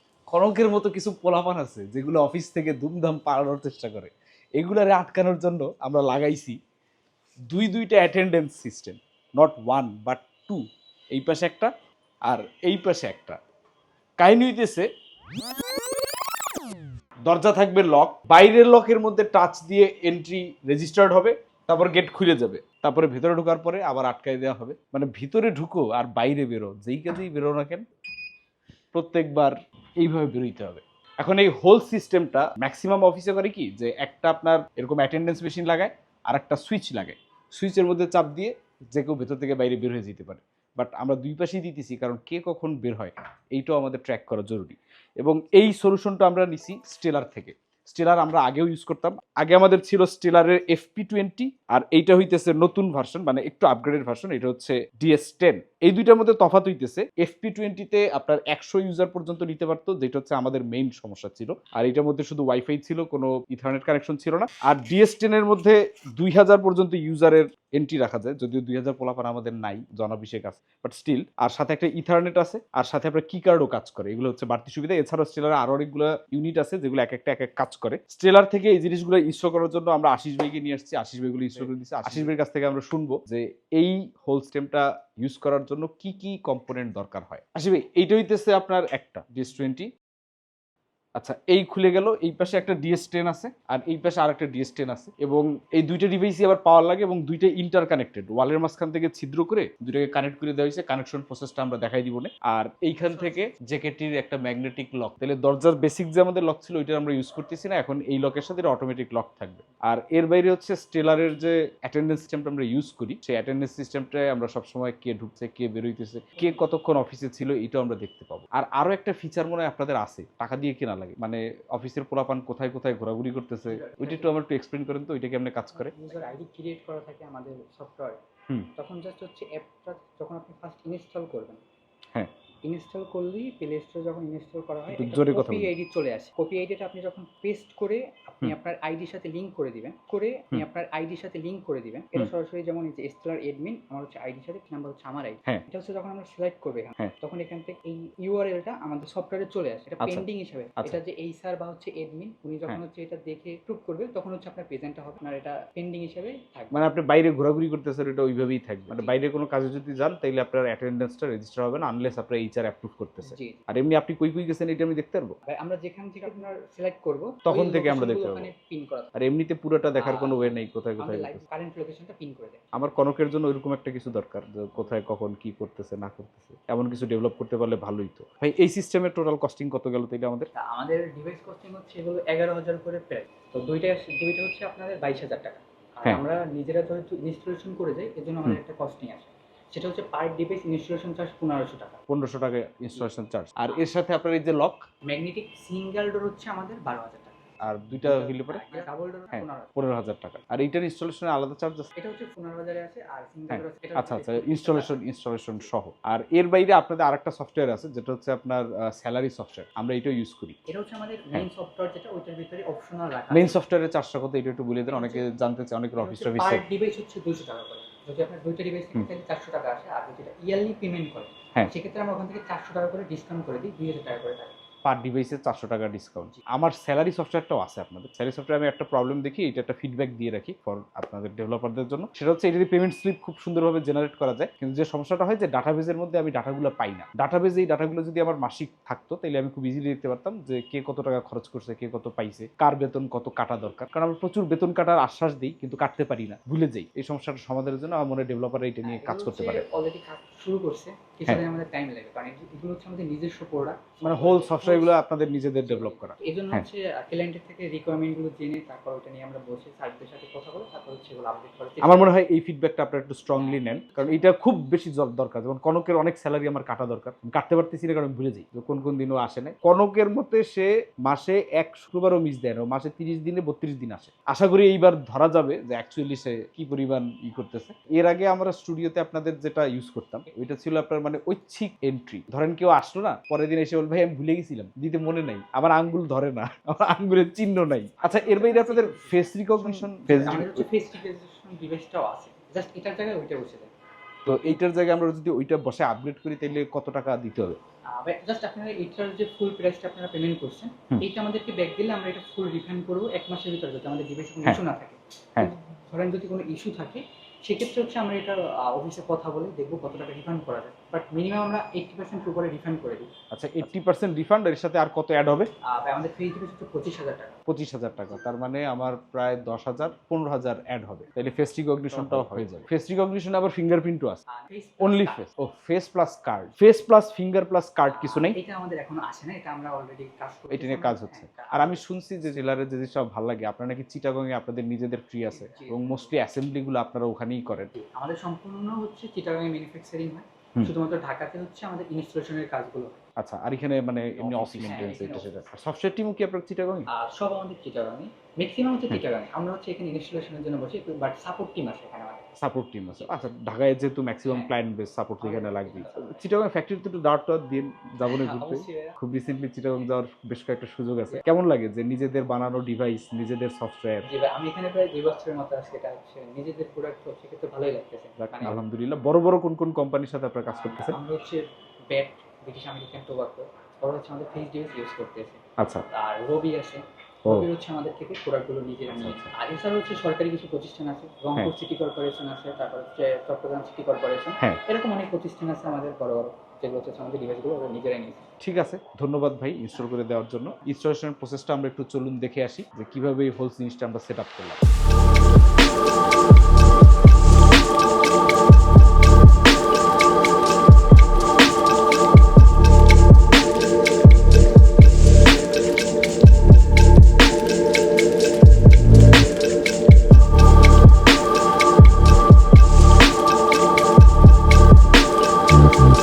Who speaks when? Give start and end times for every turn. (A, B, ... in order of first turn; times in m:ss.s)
0:00.3-0:06.6 A
0:07.5-0:11.7 A
0:12.3-0:13.4 A
0:14.2-0:14.9 A
0:17.3-0:27.8 A
0:28.9-1:29.9 A
1:21.5-1:22.3 B
1:31.2-2:05.9 A
1:43.0-1:43.5 B
1:56.4-1:56.6 B
2:03.7-2:04.3 B
2:05.7-2:08.2 B
2:08.8-2:11.6 B
2:12.6-2:36.8 B
2:14.9-2:15.7 A
2:30.0-2:30.3 A
2:36.7-2:45.4 A
2:38.8-2:39.1 B
2:43.2-2:43.6 B
2:45.4-2:49.2 B
2:47.4-2:48.5 A
2:49.1-2:51.4 A
2:50.0-2:52.6 B
2:52.7-3:00.5 A
3:00.5-3:12.0 B
3:12.1-3:14.8 A
3:15.0-3:17.4 B
3:17.6-3:18.8 A
3:18.0-3:19.7 B
3:19.3-3:21.9 A
3:22.0-3:25.0 B
3:23.5-3:30.6 A
3:30.7-3:33.6 B
3:33.3-3:36.6 A
3:34.9-3:35.3 B
3:36.0-3:44.5 B
3:44.8-4:09.6 A
4:08.8-4:15.0 B
4:14.0-4:16.7 A
4:15.6-4:22.1 B
4:21.8-4:50.6 A
4:23.3-4:24.3 B
4:48.0-4:53.7 B
4:54.2-4:57.6 A
4:57.9-5:13.1 B
5:13.3-5:15.5 A
5:15.6-5:17.4 B
5:17.5-5:24.2 A
5:21.9-5:22.4 B
5:24.3-5:25.2 B
5:24.8-5:28.4 A
5:27.9-5:31.8 B
5:30.5-5:37.7 A
5:35.3-5:36.1 B
5:37.7-5:43.0 B
5:43.2-5:46.9 A
5:44.2-5:45.4 B
5:46.9-5:52.2 B
5:52.4-6:04.1 A
5:52.9-5:53.2 B
5:54.2-5:54.5 B
5:55.2-5:56.2 B
5:58.0-5:59.0 B
6:04.0-6:08.6 B
6:08.2-6:11.0 A
6:10.5-6:15.4 B
6:15.6-6:15.8 A
6:15.9-6:28.3 B
6:18.9-6:19.3 A
6:28.4-6:34.6 A